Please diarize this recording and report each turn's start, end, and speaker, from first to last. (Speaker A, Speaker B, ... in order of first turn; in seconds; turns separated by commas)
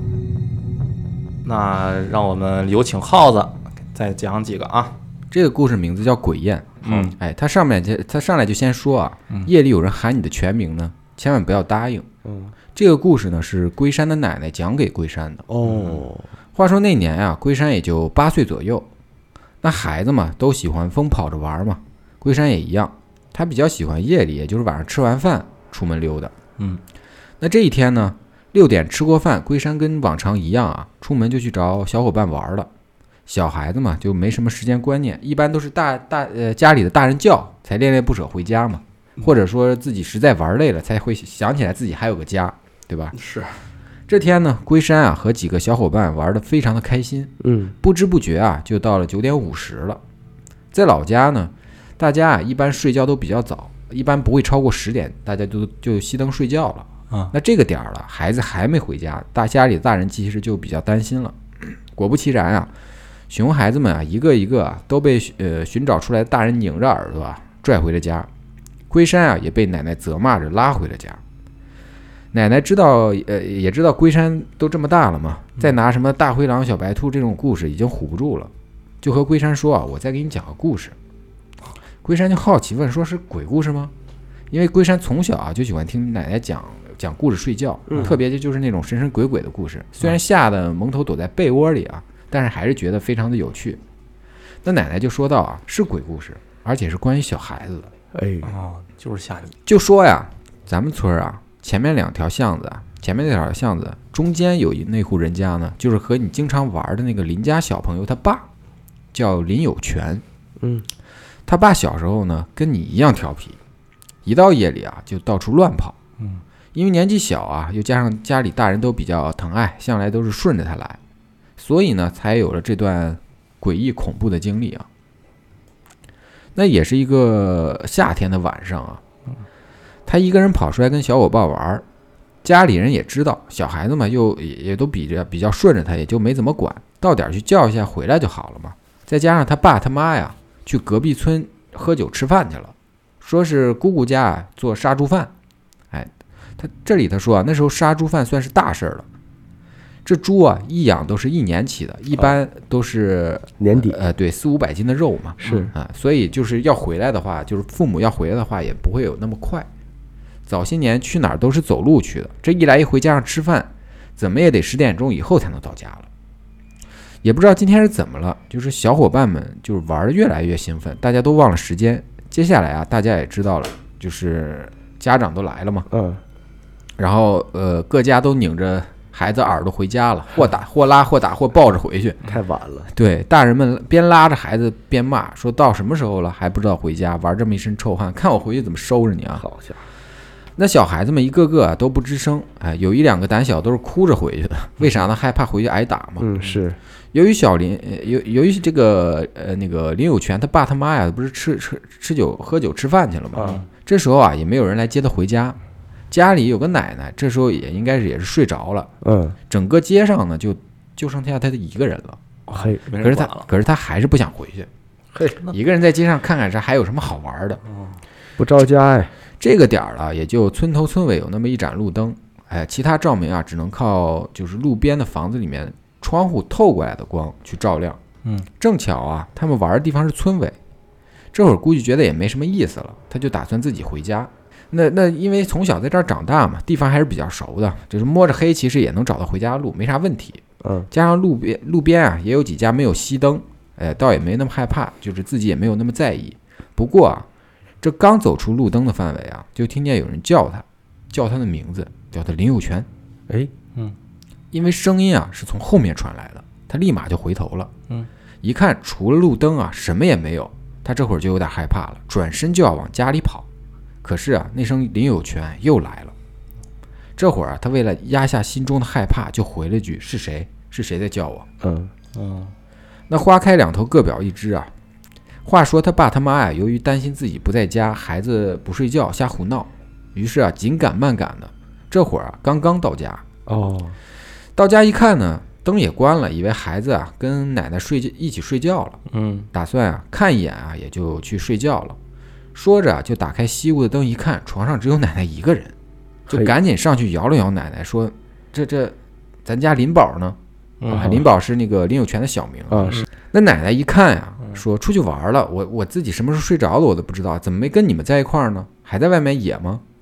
Speaker A: 1.4-5.0, Speaker B: 5.3-12.1, Speaker A: 6.8-7.2, Speaker C: 12.2-12.5, Speaker B: 12.7-15.4, Speaker C: 15.5-16.3, Speaker A: 15.6-16.1, Speaker B: 16.5-18.9, Speaker B: 19.6-26.3, Speaker B: 27.4-32.7, Speaker B: 33.3-43.1, Speaker A: 43.1-43.6, Speaker B: 44.1-50.0, Speaker C: 47.4-47.7, Speaker B: 50.7-62.7, Speaker B: 63.3-68.3, Speaker B: 68.9-71.2, Speaker B: 72.3-78.5, Speaker B: 79.0-81.0, Speaker B: 82.0-83.9, Speaker B: 84.5-93.8, Speaker C: 87.9-88.1, Speaker B: 94.6-97.9, Speaker C: 98.1-98.5, Speaker A: 98.4-99.5, Speaker B: 99.7-108.5, Speaker B: 109.1-110.2, Speaker C: 110.6-110.8, Speaker B: 111.5-113.6, Speaker B: 114.2-116.0, Speaker B: 116.7-121.0, Speaker B: 121.6-124.9, Speaker B: 126.5-129.0, Speaker B: 130.1-131.8, Speaker B: 132.4-145.3, Speaker B: 145.9-149.0, Speaker B: 150.0-159.7, Speaker C: 153.6-154.0, Speaker C: 155.4-155.7, Speaker A: 155.4-155.7, Speaker B: 160.5-166.1, Speaker B: 167.2-175.9, Speaker C: 175.9-176.2, Speaker B: 177.0-182.2, Speaker C: 182.2-182.9, Speaker B: 182.9-189.4, Speaker C: 189.4-189.8, Speaker B: 190.6-196.3, Speaker C: 196.2-196.8, Speaker B: 197.1-205.6, Speaker C: 203.3-203.6, Speaker A: 203.4-203.7, Speaker B: 206.1-208.9, Speaker C: 209.0-209.4, Speaker B: 209.5-212.2, Speaker C: 212.5-212.8, Speaker A: 212.5-213.5, Speaker B: 213.0-214.7, Speaker C: 215.1-215.4, Speaker B: 215.5-217.6, Speaker A: 217.6-218.0, Speaker C: 218.4-219.1, Speaker B: 219.4-228.0, Speaker B: 228.6-230.6, Speaker B: 231.3-247.2, Speaker C: 240.6-240.9, Speaker B: 247.8-252.9, Speaker B: 254.5-257.7, Speaker B: 258.4-263.4, Speaker B: 264.0-266.1, Speaker B: 267.2-271.5, Speaker C: 271.6-271.9, Speaker A: 272.1-272.5, Speaker B: 273.1-274.7, Speaker B: 275.4-283.2, Speaker C: 283.4-284.0, Speaker B: 284.6-289.0, Speaker A: 289.1-289.5, Speaker B: 289.5-292.0, Speaker B: 292.5-295.7, Speaker C: 296.3-296.5, Speaker B: 296.3-300.4, Speaker A: 300.8-301.2, Speaker B: 300.9-309.8, Speaker C: 300.9-301.2, Speaker C: 302.7-303.0